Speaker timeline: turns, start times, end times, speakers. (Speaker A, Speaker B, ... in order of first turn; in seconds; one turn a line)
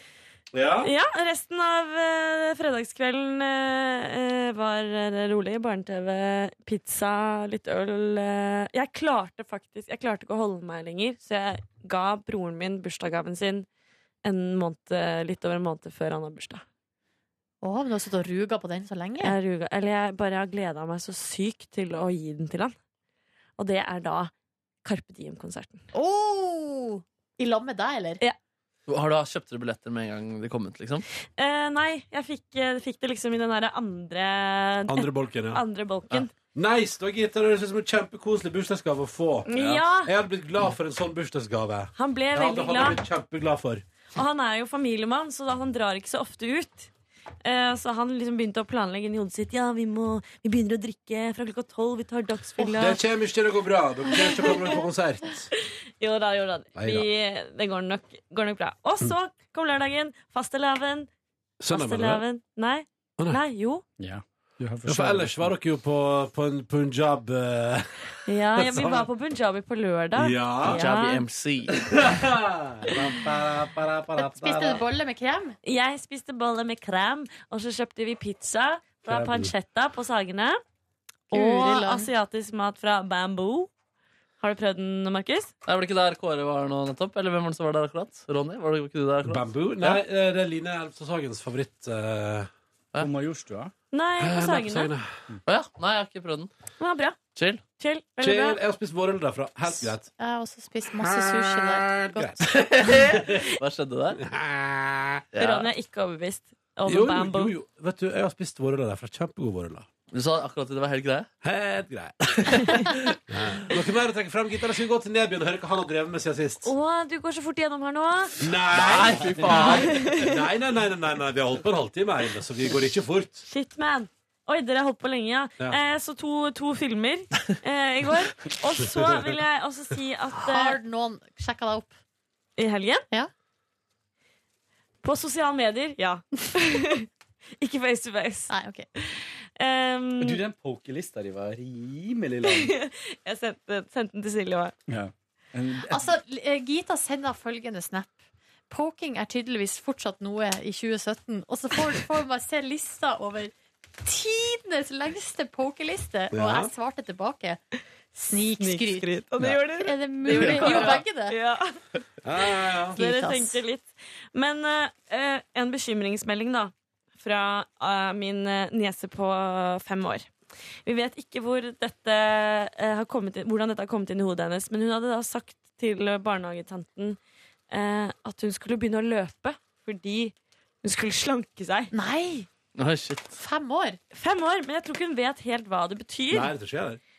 Speaker A: 0.5-0.9
Speaker B: 0.8-13.7
Speaker B: 14.2-16.6
Speaker C: 17.6-19.4
Speaker B: 19.2-22.8
Speaker B: 23.6-24.3
Speaker B: 24.9-25.8
Speaker C: 25.9-28.2
Speaker D: 28.9-31.1
Speaker B: 31.4-36.3
Speaker A: 34.9-43.8
Speaker B: 39.5-40.1
Speaker B: 42.0-43.0
Speaker B: 44.1-46.9
Speaker B: 47.5-53.0
Speaker A: 52.8-55.5
Speaker B: 54.1-54.8
Speaker B: 56.0-61.1
Speaker A: 56.8-57.1
Speaker A: 61.6-62.2
Speaker B: 61.7-63.8
Speaker E: 64.0-65.5
Speaker A: 64.8-69.1
Speaker B: 68.3-71.3
Speaker A: 70.2-70.8
Speaker D: 70.7-72.1
Speaker A: 71.7-74.8
Speaker C: 74.2-75.5
Speaker B: 75.6-80.6
Speaker A: 79.1-79.5
Speaker C: 81.3-82.1
Speaker B: 81.3-83.7
Speaker B: 84.4-85.5
Speaker D: 85.7-90.0
Speaker A: 89.2-92.5
Speaker E: 93.0-93.7
Speaker B: 93.9-94.9
Speaker A: 94.2-95.1
Speaker D: 95.5-96.5
Speaker B: 96.8-97.2
Speaker D: 97.3-97.6
Speaker B: 97.7-98.6
Speaker A: 98.2-100.1
Speaker C: 99.8-102.6
Speaker A: 101.0-103.5
Speaker D: 102.4-104.2
Speaker A: 104.2-105.2
Speaker D: 105.3-105.7
Speaker B: 105.4-107.5
Speaker A: 106.9-109.9
Speaker D: 110.1-111.3
Speaker A: 111.4-116.7
Speaker D: 112.5-113.2
Speaker B: 116.6-118.4
Speaker A: 118.4-123.5
Speaker D: 118.7-120.0
Speaker B: 119.5-120.4
Speaker B: 123.5-130.8
Speaker C: 130.4-131.9
Speaker B: 132.6-133.1
Speaker B: 135.0-137.1
Speaker B: 137.6-140.4
Speaker C: 138.5-138.9
Speaker E: 140.2-142.7
Speaker B: 142.5-144.7
Speaker E: 144.9-146.1
Speaker C: 145.9-148.2
Speaker C: 148.7-157.6
Speaker A: 156.3-156.7
Speaker C: 158.1-159.1
Speaker B: 158.6-161.8
Speaker C: 159.8-161.3
Speaker E: 160.4-160.9
Speaker A: 162.2-163.0
Speaker C: 163.0-163.6
Speaker B: 163.0-170.3
Speaker B: 170.8-177.2
Speaker B: 177.7-181.9
Speaker C: 181.9-182.5
Speaker D: 182.8-183.4
Speaker C: 183.4-184.0
Speaker B: 184.1-186.5
Speaker A: 186.3-187.0